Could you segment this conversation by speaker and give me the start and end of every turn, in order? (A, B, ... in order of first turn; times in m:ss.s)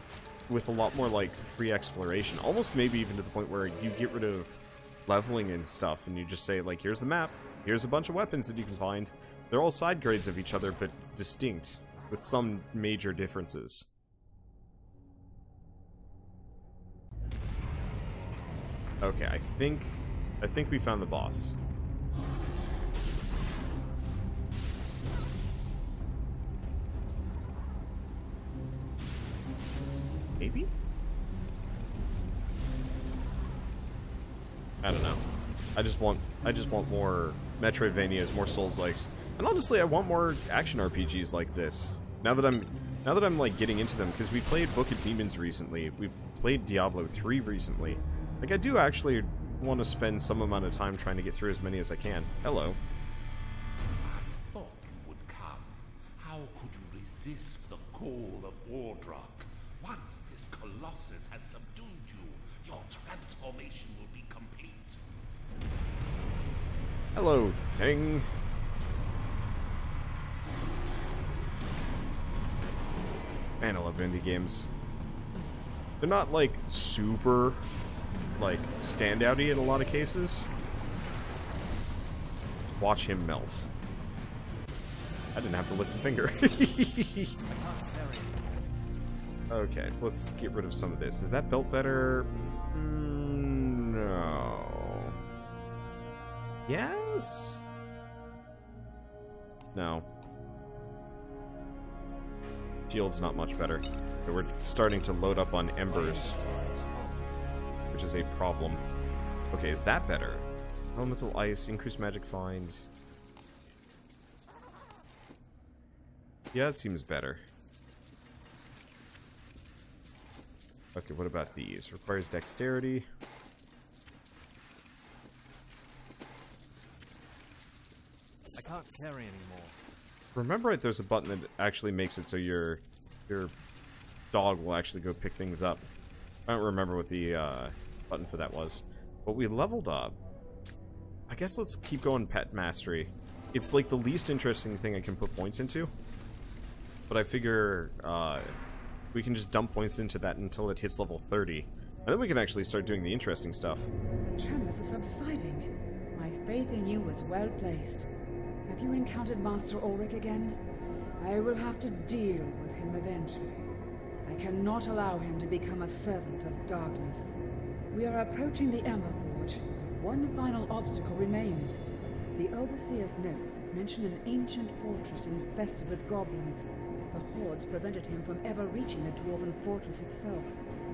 0:00.5-0:13.8 A
0:19.0-0:21.6 A
0:30.4-0:30.7 A
0:34.8-0:35.2 A
0:35.8-0:52.8 A
0:54.0-1:05.0 B
1:07.1-1:08.3 A
1:13.6-1:14.7 A
1:16.0-1:17.6 A
1:18.3-1:20.5 A
1:22.6-1:23.7 A
1:25.3-1:27.4 A
1:27.5-1:28.4 B
1:29.5-1:35.1 A
1:36.7-1:37.6 A
1:39.7-1:40.1 A
1:42.9-1:46.4 A
1:45.9-1:47.6 B
1:47.9-1:48.8 A
1:49.5-1:52.9 A
1:56.5-1:57.4 A
2:00.9-2:03.1 A
2:08.6-2:09.7 B
2:10.3-2:13.5 A
2:14.3-2:15.9 A
2:16.5-2:20.1 A
2:21.3-2:25.9 A
2:27.1-2:28.5 A
2:29.1-2:33.9 A
2:34.2-2:38.1 C
2:38.6-2:40.6 C
2:41.2-2:43.6 C
2:44.2-2:51.8 C
2:52.3-3:00.6 C